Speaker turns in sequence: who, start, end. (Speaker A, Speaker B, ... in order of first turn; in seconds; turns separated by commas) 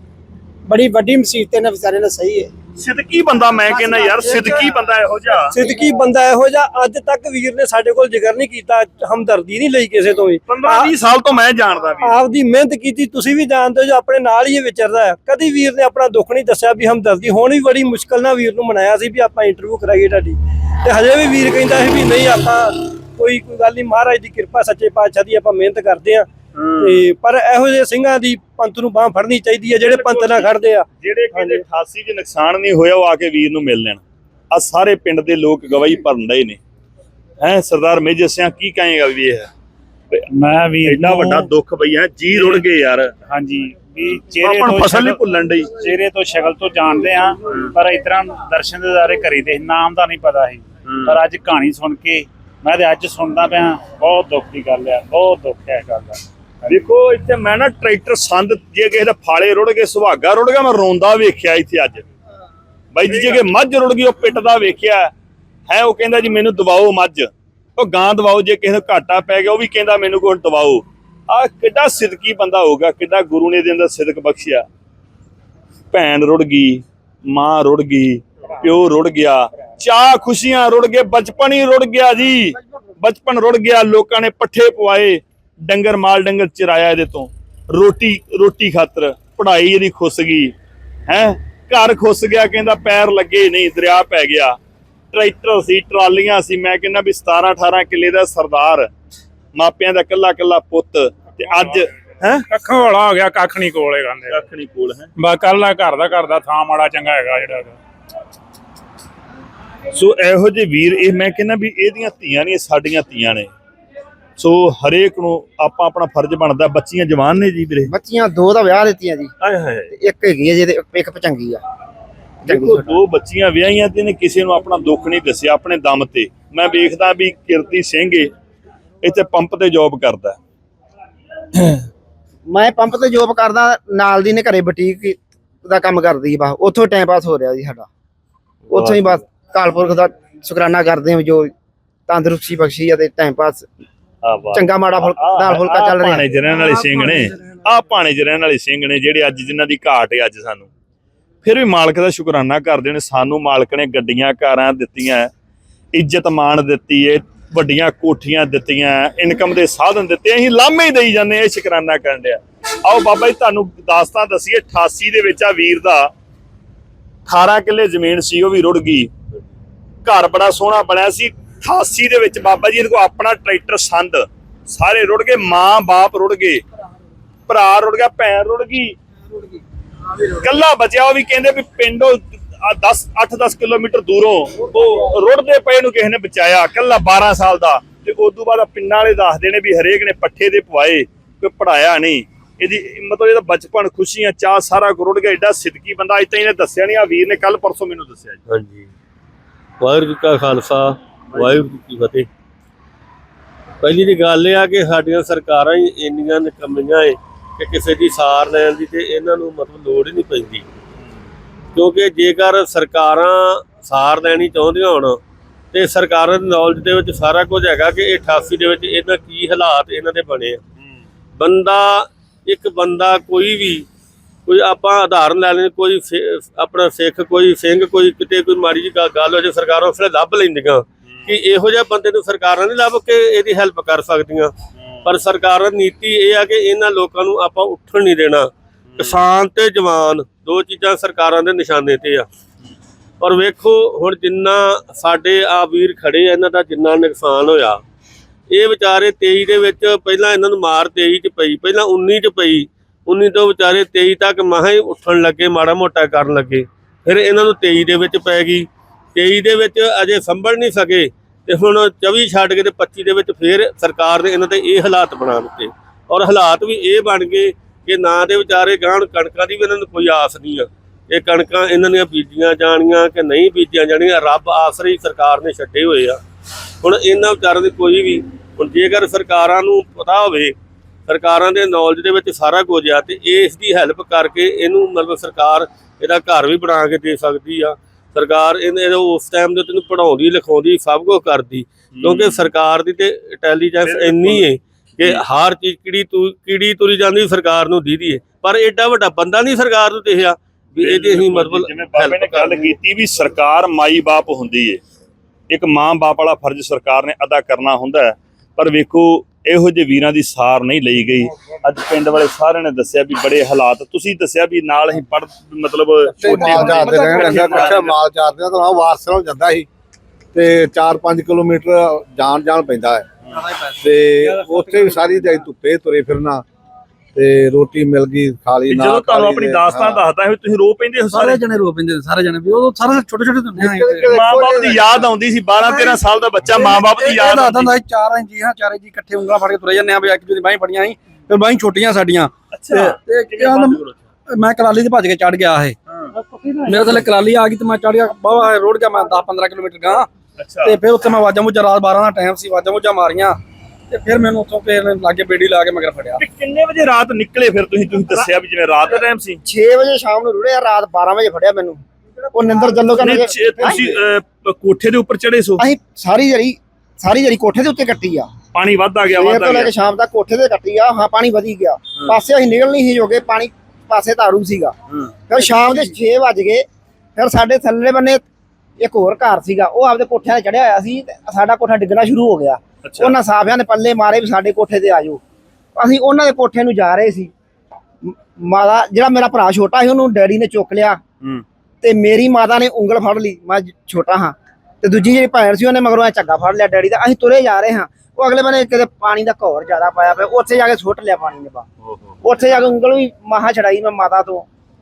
Speaker A: 0.7-2.5, Speaker B: 2.8-5.5, Speaker A: 4.0-4.3, Speaker C: 4.2-4.6, Speaker C: 5.4-10.9, Speaker B: 10.5-12.2, Speaker C: 12.0-31.6, Speaker B: 26.6-27.1, Speaker B: 29.8-36.6, Speaker B: 37.4-39.5, Speaker D: 40.3-41.5, Speaker B: 40.8-43.1, Speaker D: 42.4-42.6, Speaker D: 43.3-45.2, Speaker B: 44.4-45.7, Speaker D: 45.8-56.2, Speaker B: 50.9-51.2, Speaker B: 56.7-62.1, Speaker B: 62.9-65.1, Speaker B: 65.7-74.7, Speaker B: 75.9-90.5, Speaker B: 91.1-94.6, Speaker B: 95.1-98.9, Speaker B: 99.5-102.5, Speaker E: 102.5-104.4, Speaker B: 104.3-105.1, Speaker E: 105.2-107.8, Speaker B: 109.9-113.5, Speaker B: 114.4-117.9, Speaker F: 117.9-119.3, Speaker B: 119.4-119.9, Speaker F: 119.9-121.6, Speaker F: 122.5-123.0, Speaker B: 122.5-128.3, Speaker B: 129.0-130.4, Speaker B: 131.6-131.8, Speaker F: 132.5-137.9, Speaker B: 138.7-139.2, Speaker F: 138.7-141.5, Speaker F: 142.1-143.7, Speaker B: 144.2-150.7, Speaker F: 144.5-146.3, Speaker B: 151.4-155.3, Speaker B: 155.9-166.1, Speaker B: 167.3-169.1, Speaker B: 170.0-176.6, Speaker B: 177.5-179.0, Speaker B: 180.3-198.4, Speaker G: 198.5-198.9, Speaker G: 199.8-202.3, Speaker B: 201.3-201.6, Speaker G: 203.8-210.7, Speaker G: 211.8-215.2, Speaker G: 215.7-220.6, Speaker G: 221.4-223.8, Speaker G: 224.5-234.5, Speaker G: 235.0-242.3, Speaker B: 238.9-239.2, Speaker G: 243.2-247.8, Speaker G: 248.5-276.2, Speaker G: 276.8-280.6, Speaker G: 281.1-302.8, Speaker B: 291.9-292.5, Speaker B: 293.8-295.2, Speaker B: 300.8-304.8, Speaker B: 305.5-317.9, Speaker H: 316.1-319.7, Speaker I: 316.1-317.8, Speaker H: 320.3-323.1, Speaker I: 323.3-323.8, Speaker H: 323.8-326.4, Speaker H: 327.1-330.0, Speaker B: 328.7-331.4, Speaker I: 331.1-334.2, Speaker H: 333.6-335.0, Speaker B: 334.1-337.7, Speaker I: 335.6-345.8, Speaker B: 342.5-344.0, Speaker I: 346.6-350.1, Speaker B: 350.4-350.8, Speaker I: 350.6-353.4, Speaker I: 353.9-356.2, Speaker B: 356.2-359.4, Speaker F: 359.4-363.8, Speaker B: 363.0-365.6, Speaker F: 365.6-368.3, Speaker B: 368.5-369.7, Speaker F: 369.1-374.7, Speaker B: 374.9-375.5, Speaker F: 375.3-378.2, Speaker F: 378.8-385.2, Speaker B: 382.8-383.1, Speaker F: 385.8-387.3, Speaker F: 388.0-391.0, Speaker F: 391.8-401.7, Speaker B: 401.8-402.2, Speaker F: 402.2-404.5